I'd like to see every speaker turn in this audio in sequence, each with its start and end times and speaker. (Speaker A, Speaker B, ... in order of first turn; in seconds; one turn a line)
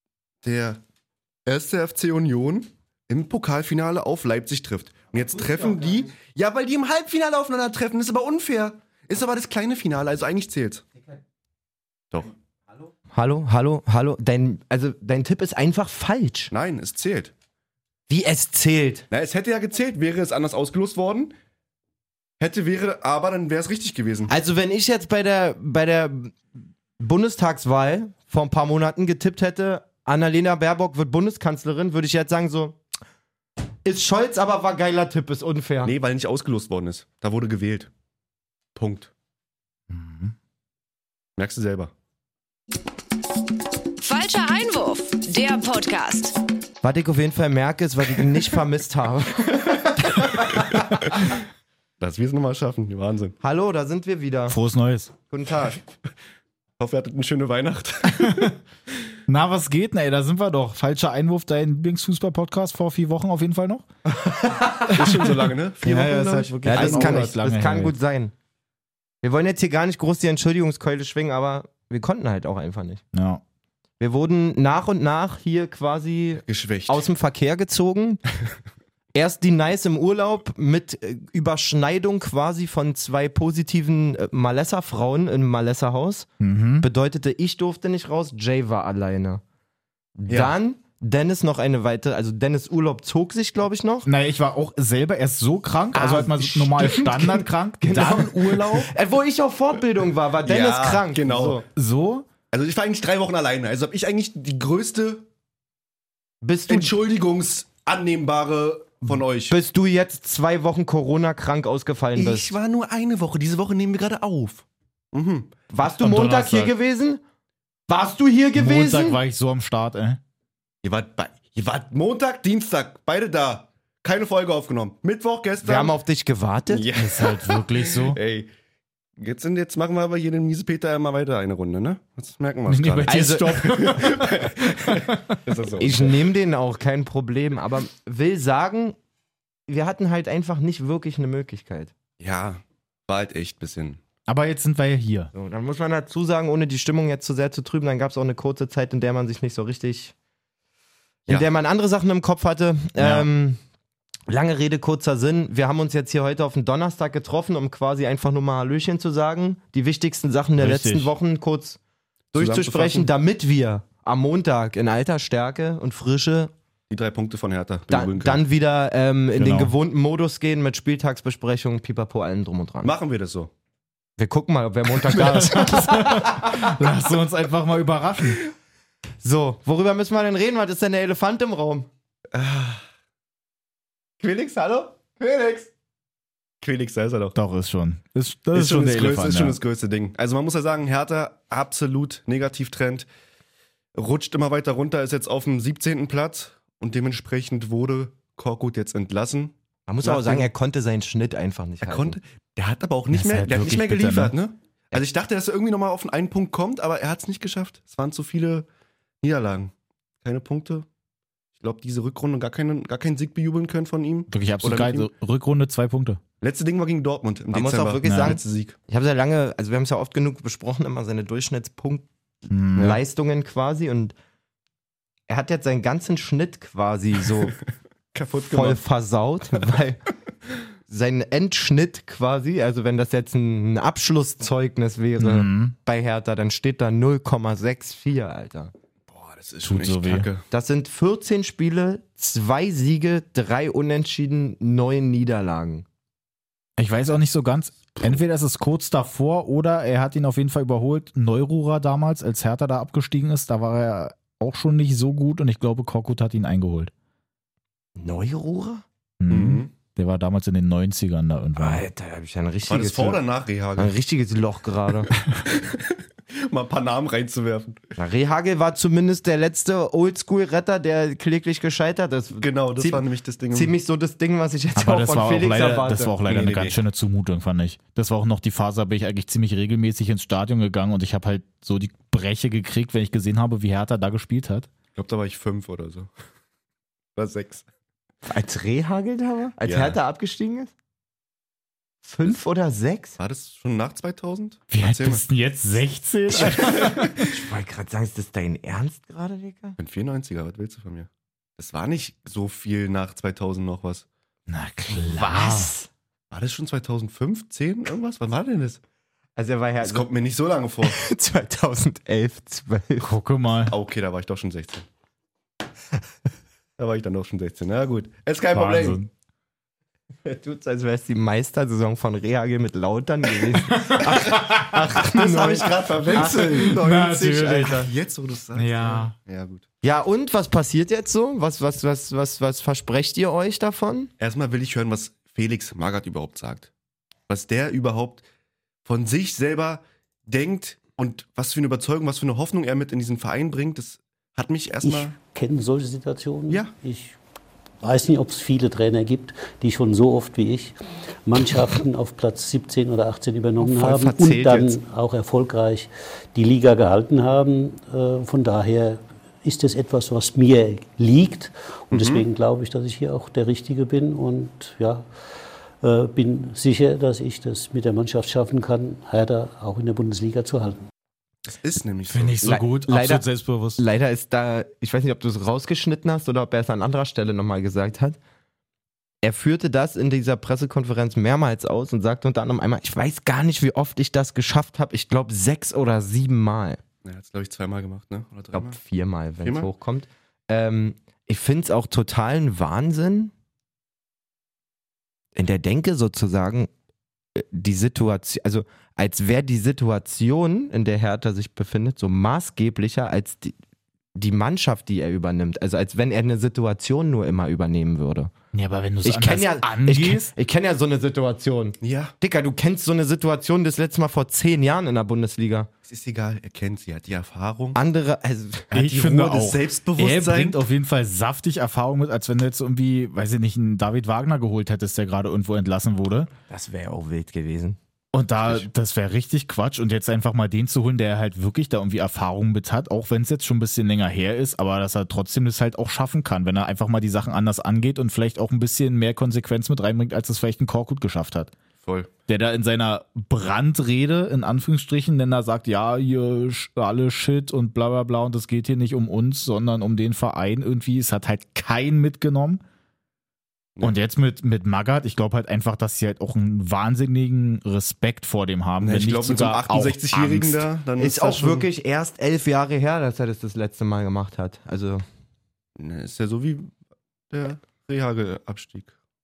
Speaker A: 0.4-0.8
Speaker A: 1.4-10.8
Speaker B: 13.1-16.5
Speaker A: 16.5-17.3
Speaker B: 18.1-19.1
Speaker A: 19.1-21.3
Speaker A: 22.4-24.3
Speaker B: 24.3-26.4
Speaker B: 27.0-32.8
Speaker B: 33.9-35.9
Speaker A: 35.8-37.9
Speaker A: 38.8-39.1
Speaker C: 39.9-40.3
Speaker A: 41.4-41.9
Speaker D: 44.0-46.4
Speaker B: 46.8-50.9
Speaker A: 52.0-53.4
Speaker B: 53.4-54.6
Speaker C: 54.5-55.1
Speaker B: 55.3-55.8
Speaker A: 56.8-58.6
Speaker C: 58.1-58.5
Speaker C: 59.3-63.9
Speaker B: 64.3-64.9
Speaker A: 64.8-67.3
Speaker B: 65.8-68.3
Speaker C: 65.9-68.0
Speaker B: 69.2-73.0
Speaker C: 73.1-73.4
Speaker B: 74.0-78.2
Speaker A: 76.5-77.0
Speaker B: 79.1-89.4
Speaker C: 86.4-86.9
Speaker B: 90.2-94.1
Speaker A: 90.3-90.6
Speaker C: 94.0-98.9
Speaker B: 95.9-101.7
Speaker A: 100.4-101.6
Speaker C: 101.8-102.3
Speaker A: 102.5-105.3
Speaker B: 106.4-106.9
Speaker A: 106.7-109.6
Speaker B: 109.5-112.5
Speaker A: 112.2-115.5
Speaker B: 115.7-117.2
Speaker C: 115.8-116.7
Speaker B: 117.9-119.2
Speaker C: 118.6-120.2
Speaker A: 120.8-125.9
Speaker B: 125.6-126.9
Speaker A: 126.7-128.5
Speaker C: 127.0-128.2
Speaker A: 129.2-136.3
Speaker C: 132.7-135.3
Speaker B: 133.1-133.8
Speaker B: 135.8-139.0
Speaker B: 139.7-141.9
Speaker A: 142.2-144.0
Speaker C: 144.3-145.3
Speaker B: 145.3-150.1
Speaker B: 151.3-153.6
Speaker C: 153.0-153.3
Speaker B: 154.3-161.8
Speaker C: 160.6-161.1
Speaker B: 162.3-166.5
Speaker A: 162.3-163.1
Speaker A: 166.9-168.4
Speaker B: 167.9-172.9
Speaker C: 169.3-169.7
Speaker A: 172.8-173.5
Speaker B: 174.2-176.7
Speaker C: 175.0-178.4
Speaker B: 179.2-181.9
Speaker A: 182.3-182.8
Speaker A: 184.2-185.7
Speaker A: 186.6-187.3
Speaker C: 187.3-189.6
Speaker A: 188.5-193.1
Speaker A: 193.9-200.5
Speaker B: 199.9-202.2
Speaker A: 201.8-208.7
Speaker C: 203.1-204.3
Speaker A: 209.2-209.7
Speaker A: 210.2-210.9
Speaker A: 211.6-215.1
Speaker C: 214.3-216.2
Speaker A: 216.4-218.8
Speaker B: 217.5-222.1
Speaker C: 218.1-218.4
Speaker C: 222.5-223.0
Speaker B: 222.8-224.1
Speaker B: 225.3-227.6
Speaker A: 228.1-228.8
Speaker B: 228.5-230.0
Speaker B: 230.9-238.7
Speaker C: 235.2-235.8
Speaker A: 239.1-240.4
Speaker C: 239.6-240.3
Speaker B: 240.5-245.8
Speaker C: 246.8-256.9
Speaker B: 258.0-258.8
Speaker C: 259.2-261.9
Speaker A: 259.3-259.7
Speaker B: 261.6-263.2
Speaker A: 262.7-263.9
Speaker B: 263.8-265.1
Speaker A: 265.5-267.8
Speaker B: 268.0-276.1
Speaker A: 272.4-273.7
Speaker C: 274.8-284.7
Speaker A: 276.3-276.8
Speaker A: 284.9-286.1
Speaker A: 287.2-287.6
Speaker B: 288.2-290.7
Speaker A: 289.6-290.0
Speaker B: 292.0-293.2
Speaker A: 293.2-295.2
Speaker C: 294.7-297.4
Speaker B: 296.4-299.8
Speaker A: 296.5-296.8
Speaker A: 299.8-304.1
Speaker C: 304.5-305.7
Speaker B: 305.0-305.9
Speaker A: 306.3-308.8
Speaker B: 309.4-310.1
Speaker A: 309.8-311.0
Speaker B: 310.8-313.1
Speaker C: 313.0-313.8
Speaker A: 313.7-314.9
Speaker A: 316.8-319.0
Speaker C: 318.5-319.1
Speaker B: 320.2-326.8
Speaker C: 323.8-324.6
Speaker A: 324.6-329.6
Speaker C: 326.2-327.9
Speaker C: 328.6-329.1
Speaker B: 329.8-334.1
Speaker A: 334.2-336.7
Speaker A: 337.3-338.2
Speaker A: 338.9-345.1
Speaker E: 344.8-347.2
Speaker E: 347.8-365.1
Speaker B: 353.6-354.7
Speaker A: 354.0-354.6
Speaker A: 361.9-362.2
Speaker E: 365.8-370.9
Speaker A: 371.5-372.4
Speaker C: 372.1-373.8
Speaker B: 372.4-373.2
Speaker B: 373.8-378.2
Speaker B: 379.2-386.8
Speaker A: 387.0-388.8
Speaker B: 388.5-393.3
Speaker A: 389.4-389.7
Speaker B: 395.4-396.7
Speaker B: 397.4-403.6
Speaker B: 404.1-408.3
Speaker C: 408.5-410.3
Speaker B: 409.0-415.7
Speaker A: 411.8-412.1
Speaker A: 415.9-417.8
Speaker B: 417.8-418.8
Speaker C: 418.7-426.3
Speaker A: 418.8-420.6
Speaker B: 426.5-427.8
Speaker C: 428.1-441.5
Speaker A: 441.8-442.1
Speaker C: 442.3-452.6
Speaker C: 453.8-460.7
Speaker A: 458.8-461.7
Speaker B: 461.0-465.0
Speaker A: 465.8-466.7
Speaker A: 467.3-468.9